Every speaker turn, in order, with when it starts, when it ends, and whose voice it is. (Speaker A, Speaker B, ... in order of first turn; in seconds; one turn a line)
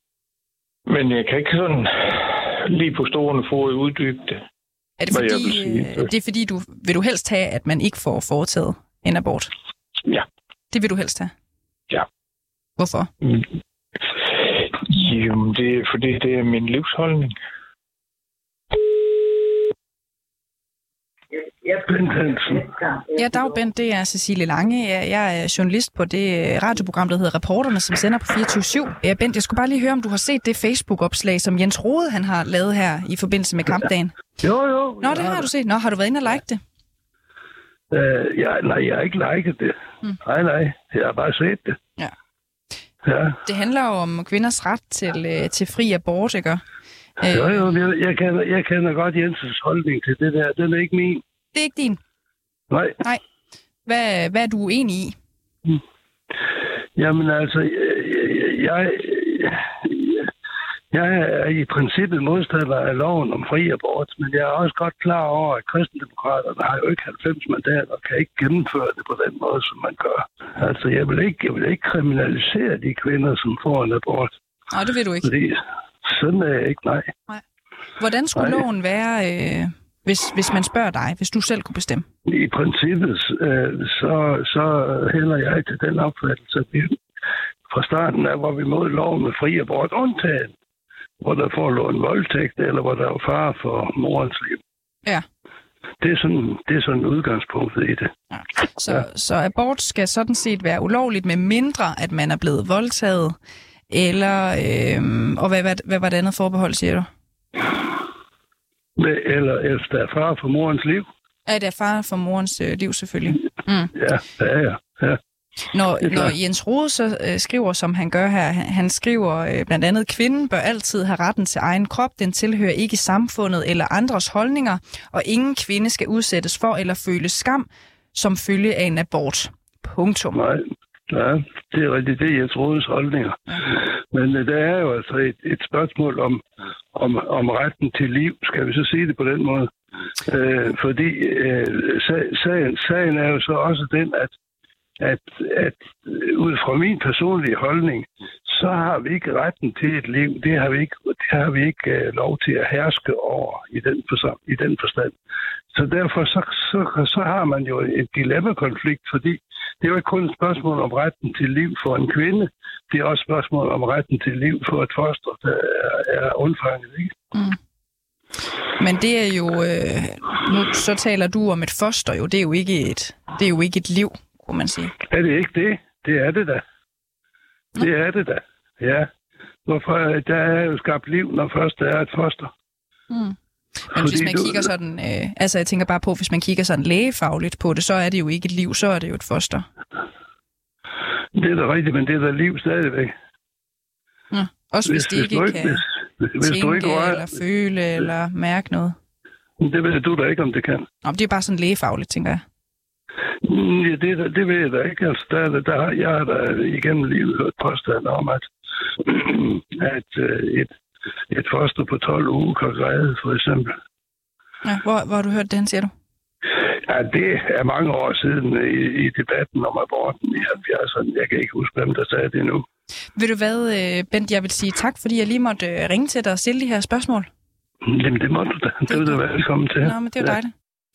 Speaker A: 0.9-4.4
Speaker B: 5.0-9.5
Speaker A: 5.1-6.1
Speaker B: 10.7-11.3
Speaker B: 12.8-13.1
Speaker A: 14.7-17.3
Speaker C: 21.7-22.8
Speaker B: 23.1-34.1
Speaker C: 34.4-35.5
Speaker B: 35.0-36.6
Speaker C: 37.9-41.8
Speaker C: 43.0-43.4
Speaker B: 43.4-46.6
Speaker B: 47.2-47.7
Speaker C: 47.2-51.2
Speaker B: 51.5-52.0
Speaker C: 52.7-53.0
Speaker B: 53.9-55.1
Speaker C: 57.0-60.3
Speaker C: 60.9-74.3
Speaker B: 74.7-75.3
Speaker C: 75.2-77.1
Speaker B: 78.0-82.0
Speaker C: 78.3-78.6
Speaker C: 82.3-87.0
Speaker C: 87.7-90.5
Speaker C: 91.2-94.6
Speaker C: 96.0-98.1
Speaker B: 98.3-103.3
Speaker B: 103.9-107.1
Speaker C: 109.0-111.1
Speaker B: 111.5-113.9
Speaker C: 113.9-115.2
Speaker B: 115.7-130.4
Speaker C: 116.0-116.3
Speaker C: 130.3-136.4
Speaker C: 136.9-139.7
Speaker C: 140.2-144.3
Speaker C: 145.0-155.1
Speaker C: 155.7-167.1
Speaker B: 168.8-174.9
Speaker C: 175.1-176.6
Speaker C: 177.8-179.1
Speaker C: 179.7-182.5
Speaker B: 183.1-183.3
Speaker C: 183.9-184.7
Speaker B: 183.9-189.7
Speaker C: 191.3-193.1
Speaker B: 194.3-195.8
Speaker C: 194.8-197.3
Speaker B: 196.4-198.9
Speaker C: 199.6-200.9
Speaker B: 201.0-202.4
Speaker C: 203.4-208.5
Speaker C: 209.0-210.7
Speaker C: 211.3-213.7
Speaker B: 214.6-215.9
Speaker C: 216.9-222.6
Speaker B: 223.2-227.3
Speaker C: 227.8-230.3
Speaker B: 228.9-229.2
Speaker B: 229.8-230.5